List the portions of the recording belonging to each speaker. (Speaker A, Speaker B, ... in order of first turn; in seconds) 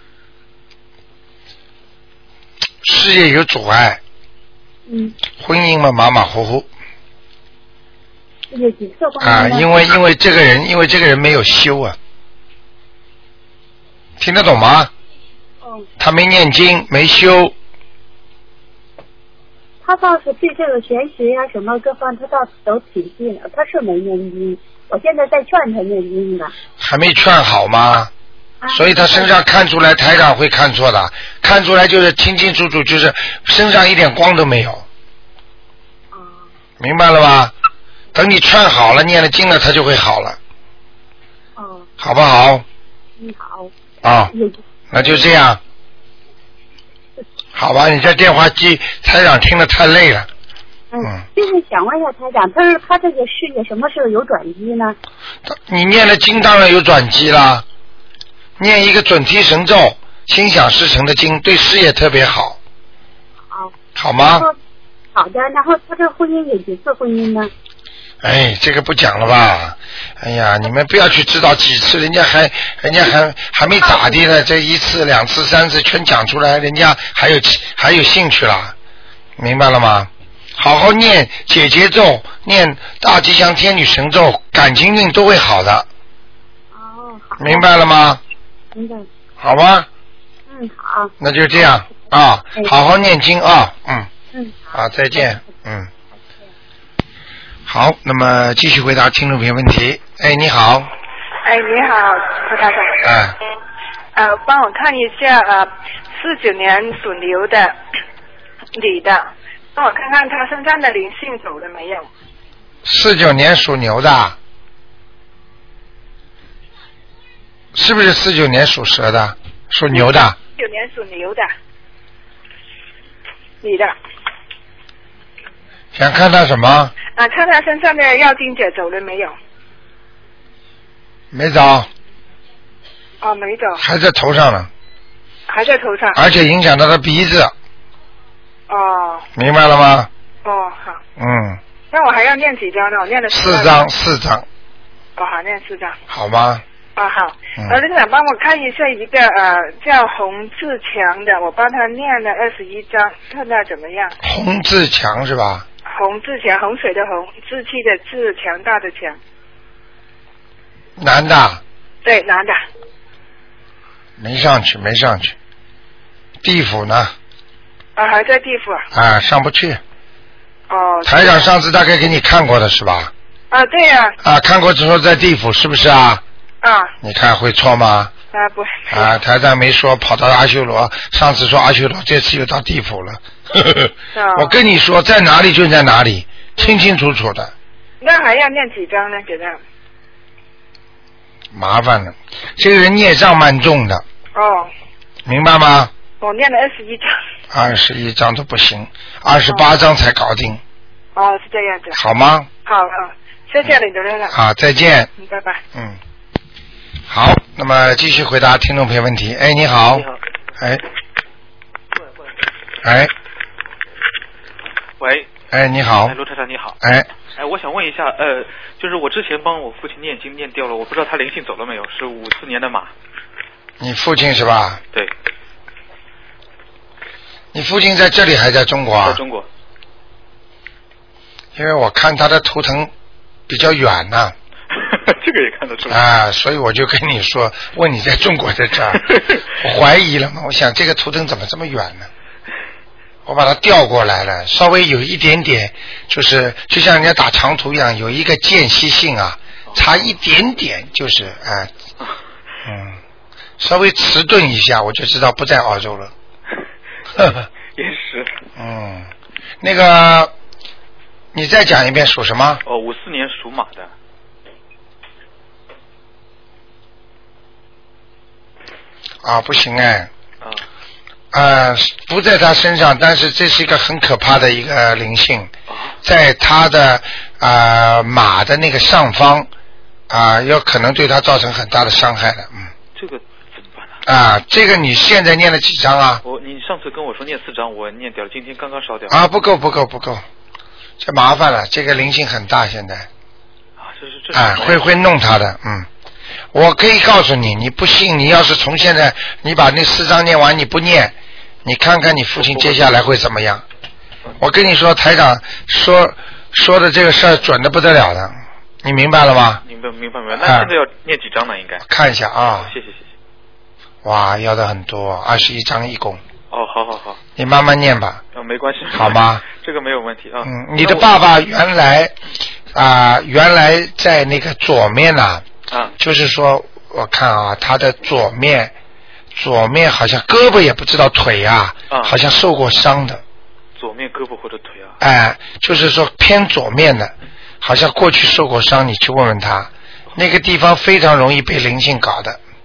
Speaker A: 2.8-4.0, 5.4-6.7, 9.2-12.0, 14.2-14.9, 16.0-17.5, 26.8-28.1, 28.7-34.8, 36.8-37.5, 38.1-40.4, 42.0-42.6, 44.0-44.3, 44.9-45.6, 47.5-50.3, 55.5-57.6, 58.6-62.6, 64.0-64.5, 68.2-78.7, 79.4-85.9, 87.4-88.2, 89.4-89.9, 91.2-94.1, 94.7-95.9, 97.7-100.9, 103.0-103.4, 112.8-114.3, 117.7-120.3, 125.9-126.9, 131.3-131.9, 133.8-134.7, 136.1-137.5, 139.3-140.1, 141.2-141.6, 143.3-144.4, 146.1-146.6, 154.2-155.7, 161.0-161.6, 164.2-165.3, 166.4-167.1, 168.9-169.8, 171.0-173.1, 174.2-176.2, 177.0-178.1, 178.9-187.5, 191.5-194.0, 195.2-195.9, 197.5-200.6, 201.9-202.5, 204.3-205.1, 205.7-206.0, 207.1-210.8, 212.8-213.1, 215.5-216.2, 216.8-217.1, 223.8-224.8, 227.5-229.2, 231.6-232.9, 233.5-234.3, 235.9-242.1, 243.2-251.7, 252.6-253.0, 253.6-256.1, 257.1-257.4, 258.6-259.1, 259.6-260.3, 261.3-262.6, 269.2-270.1, 271.3-275.5, 276.0-279.5, 280.1-282.7, 284.0-286.2, 289.1-290.2, 291.0-293.1, 294.3-295.9, 296.5-301.1, 301.6-303.6, 304.4-309.6, 310.3-310.7, 311.8-312.7, 314.0-316.2, 317.4-318.2, 318.9-319.4, 320.4-322.1, 322.7-325.4, 326.0-328.7, 329.3-333.2, 335.0-342.4
Speaker B: 4.9-5.2, 8.5-9.7, 15.6-15.9, 19.8-26.5, 28.6-29.3, 36.1-36.5, 41.6-41.9, 43.2-43.7, 44.3-45.3, 50.9-55.0, 63.5-64.5, 65.1-67.5, 73.8-74.1, 86.7-87.7, 88.7-89.1, 90.5-91.1, 94.3-94.8
Speaker C: 101.4-103.0, 104.1-107.8, 108.7-112.1, 119.9-121.5, 123.6-123.9, 127.2-129.3, 133.2-133.8, 135.5-136.2, 138.7-139.3, 140.4-141.0, 141.9-143.8, 145.2-146.0, 146.9-154.2, 155.9-159.2, 162.0-162.6, 167.9-168.8, 170.7-171.5, 173.5-174.2, 176.6-176.9, 178.3-179.1, 184.1-184.6, 188.0-189.6, 194.3-194.7, 196.2-197.1, 201.1-201.9, 202.7-204.3, 205.2-205.6
Speaker D: 215.0-215.3, 216.0-216.8, 217.3-222.9, 229.0-229.5, 234.7-236.0, 239.0-239.4, 257.8-258.4, 262.6-263.9, 270.4-270.6, 275.7-275.9, 282.9-284.0, 286.2-289.2, 293.8-294.9, 302.4-302.8, 309.6-311.8, 312.6-313.1, 316.5-317.2, 318.3-321.1, 325.7-325.9, 331.9-332.1, 333.8-335.0